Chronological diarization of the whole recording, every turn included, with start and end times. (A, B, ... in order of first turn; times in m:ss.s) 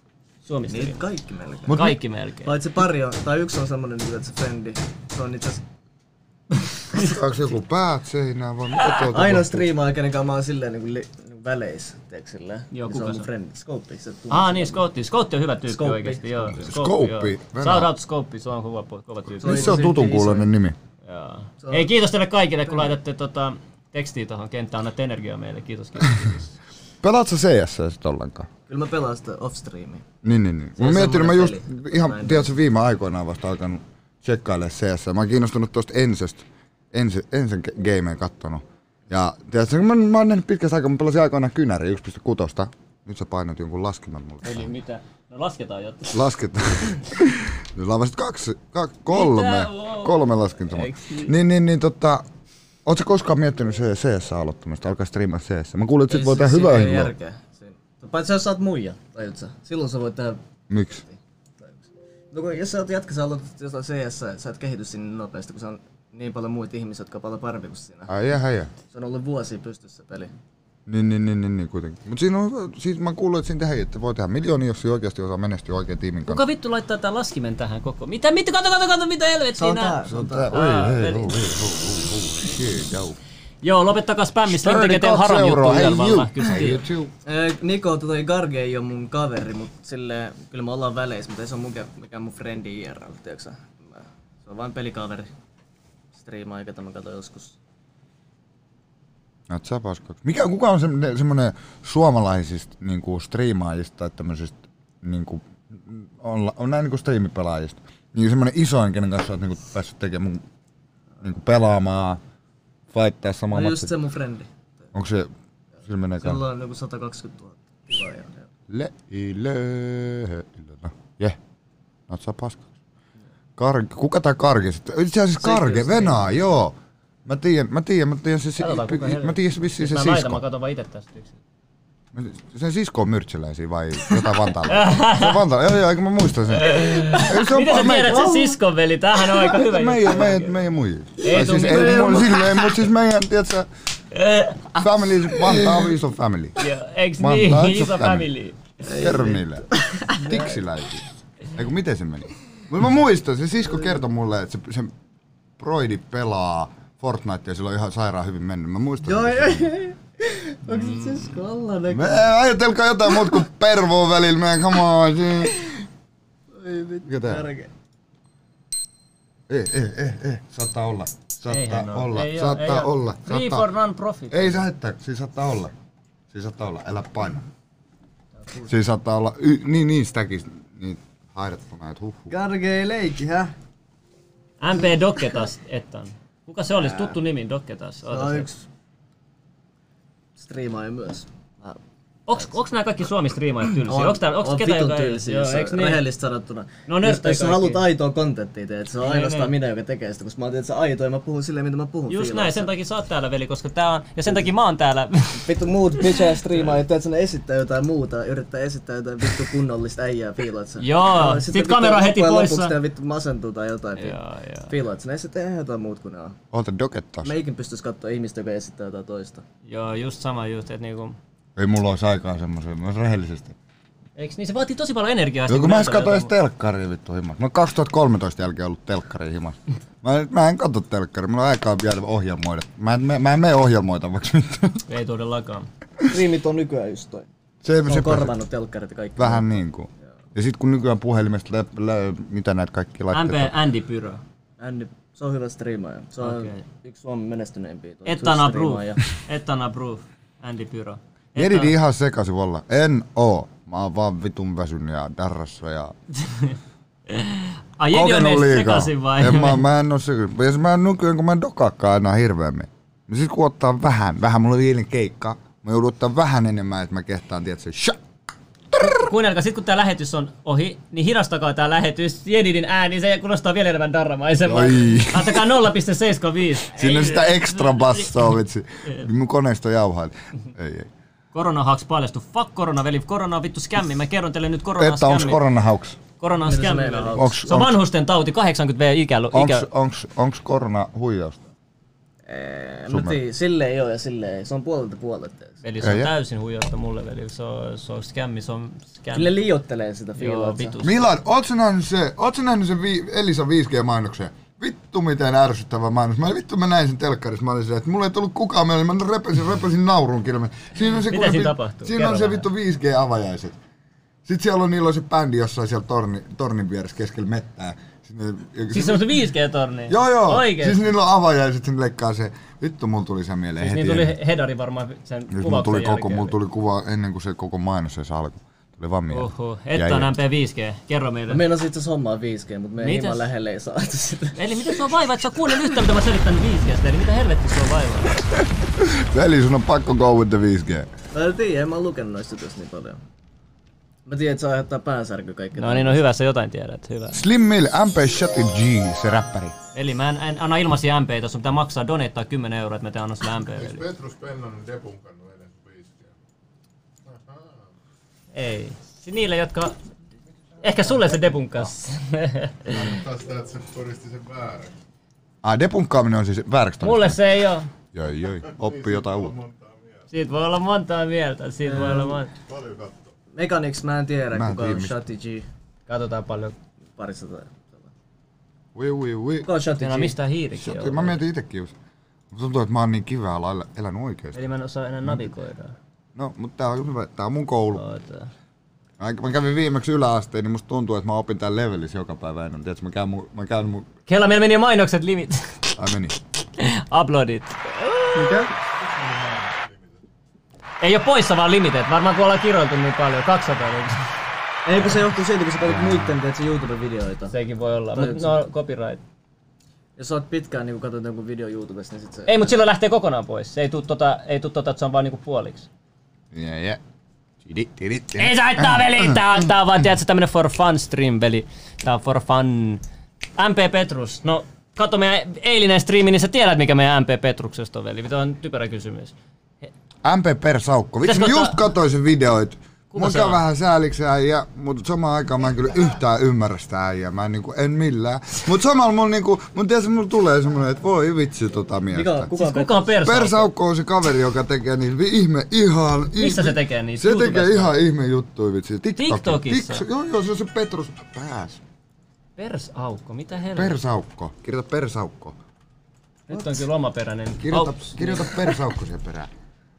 0:00.4-0:01.0 A
0:00.7-0:05.6 B
0:01.7-0:02.0 C
0:01.7-0:02.6 A
0:06.9-0:09.7 C
0:09.0-0:14.8 B
0:12.7-0:13.3 A
0:14.3-0:19.9 A
0:15.7-0:16.6 B
0:16.6-0:17.9 C
0:19.4-0:20.5 B
0:19.4-0:20.8 C
0:21.1-0:26.6 A
0:21.6-0:21.9 B
0:27.0-0:28.5 C
0:28.7-0:30.0 B
0:30.2-0:44.7 C
0:30.8-0:32.5 B
0:44.4-0:46.2 A
0:46.1-0:52.2 C
0:49.1-0:51.3 A
0:52.9-0:57.1 C
0:56.1-1:00.4 B
1:00.7-1:01.0 C
1:01.0-1:08.1 B
1:08.1-1:08.7 C
1:08.9-1:10.3 B
1:10.9-1:16.4 C
1:16.3-1:21.4 A
1:19.6-1:20.6 B
1:20.1-1:23.2 C
1:23.6-1:26.8 A
1:24.5-1:27.1 C
1:27.2-1:35.3 B
1:36.2-1:37.6 B
1:39.5-1:50.4 C
1:51.2-1:52.2 C
1:52.9-1:53.9 C
1:53.5-1:54.5 B
1:54.9-1:55.3 C
1:55.9-1:56.4 C
1:56.2-1:58.5 B
1:58.7-2:01.4 C
2:02.1-2:02.7 C
2:03.6-2:10.4 C
2:05.4-2:06.4 B
2:08.6-2:11.4 A
2:12.1-2:18.5 C
2:14.7-2:15.4 A
2:16.5-2:20.6 A
2:19.3-2:23.7 C
2:21.2-2:22.8 A
2:21.5-2:22.1 B
2:24.1-2:24.7 A
2:24.8-2:26.6 C
2:26.6-2:28.7 A
2:27.2-2:28.3 C
2:28.9-2:34.9 C
2:28.9-2:29.4 B
2:30.0-2:30.2 B
2:35.6-2:39.8 C
2:39.0-2:42.3 B
2:40.7-2:41.3 A
2:41.9-2:45.6 C
2:46.6-2:47.7 B
2:47.0-2:47.5 C
2:49.5-2:53.7 C
2:51.5-2:54.6 A
2:54.3-2:55.7 C
2:56.3-2:57.5 C
2:58.7-3:02.3 C
3:02.3-3:03.5 B
3:04.6-3:08.5 A
3:06.8-3:07.1 B
3:08.1-3:08.7 B
3:10.4-3:11.8 B
3:12.3-3:16.0 A
3:13.8-3:22.7 B
3:16.9-3:17.8 A
3:19.0-3:19.5 A
3:22.1-3:25.5 A
3:25.4-3:36.4 B
3:30.8-3:32.8 A
3:34.0-3:34.7 A
3:36.5-3:37.4 C
3:37.2-3:39.4 B
3:39.6-3:41.2 A
3:41.6-3:43.6 C
3:44.2-3:46.3 A
3:45.5-3:54.8 C
3:54.9-3:55.7 A
3:56.1-3:57.3 B
3:57.6-3:58.4 C
3:57.8-3:59.6 B
3:59.2-4:03.6 C
4:03.1-4:04.2 A
4:04.6-4:09.0 B
4:06.2-4:06.6 A
4:08.0-4:11.7 A
4:11.4-4:15.9 C
4:16.2-4:16.6 A
4:17.1-4:19.6 A
4:17.9-4:28.0 C
4:28.7-4:29.0 C
4:28.8-4:38.3 A
4:34.4-4:35.6 C
4:36.7-4:40.9 C
4:41.3-4:45.4 A
4:44.8-4:46.0 C
4:46.2-4:49.7 A
4:46.4-4:47.4 B
4:47.1-4:47.8 C
4:49.3-4:51.4 C
4:52.3-4:55.6 B
4:52.9-4:53.2 C
4:55.6-4:59.4 A
4:55.8-4:56.1 C
4:59.1-5:00.8 B
5:00.2-5:01.0 A
5:00.8-5:13.6 C
5:11.1-5:12.5 A
5:14.2-5:19.1 C
5:18.7-5:20.9 A
5:19.9-5:24.1 C
5:23.6-5:26.4 A
5:25.3-5:30.1 C
5:29.1-5:31.4 A
5:31.3-5:34.7 B
5:32.8-5:33.3 A
5:34.4-5:38.2 A
5:38.4-5:40.9 C
5:41.1-5:43.0 B
5:44.1-5:46.0 B
5:45.6-5:47.2 A
5:47.1-5:49.6 C
5:49.7-5:53.8 A
5:53.5-5:56.2 D
5:57.1-5:57.6 D
5:58.3-5:59.8 A
6:00.6-6:02.9 A
6:02.7-6:04.7 D
6:05.4-6:07.2 C
6:06.8-6:07.7 A
6:07.9-6:09.4 C
6:08.4-6:10.1 D
6:10.1-6:12.3 A
6:11.7-6:12.2 B
6:12.4-6:13.1 D
6:13.3-6:15.5 B
6:14.3-6:15.0 C
6:15.9-6:16.6 A
6:17.0-6:17.9 B
6:18.8-6:19.5 C
6:19.4-6:20.2 B
6:19.8-6:21.2 A
6:20.6-6:21.7 C
6:22.3-6:24.4 C
6:24.3-6:25.8 A
6:26.2-6:27.8 C
6:27.7-6:28.3 A
6:29.0-6:33.9 C
6:34.1-6:35.6 A
6:35.8-6:36.2 C
6:36.6-6:38.5 A
6:38.2-6:38.5 B
6:38.8-6:40.0 D
6:40.8-6:44.0 A
6:44.6-6:47.3 B
6:45.6-6:46.1 C
6:47.3-6:49.0 A
6:48.0-6:48.3 B
6:50.0-6:52.5 B
6:52.3-6:55.7 A
6:56.3-6:56.8 C
6:57.4-6:59.3 C
6:58.2-7:02.8 A
7:03.4-7:09.7 A
7:10.0-7:22.3 C
7:11.0-7:11.6 A
7:12.9-7:13.4 A
7:21.9-7:23.0 B
7:22.4-7:23.5 A
7:23.0-7:31.6 C
7:26.2-7:27.8 A
7:29.0-7:29.8 A
7:32.4-7:33.8 A
7:33.5-7:35.4 C
7:36.3-7:38.6 A
7:37.4-7:39.3 C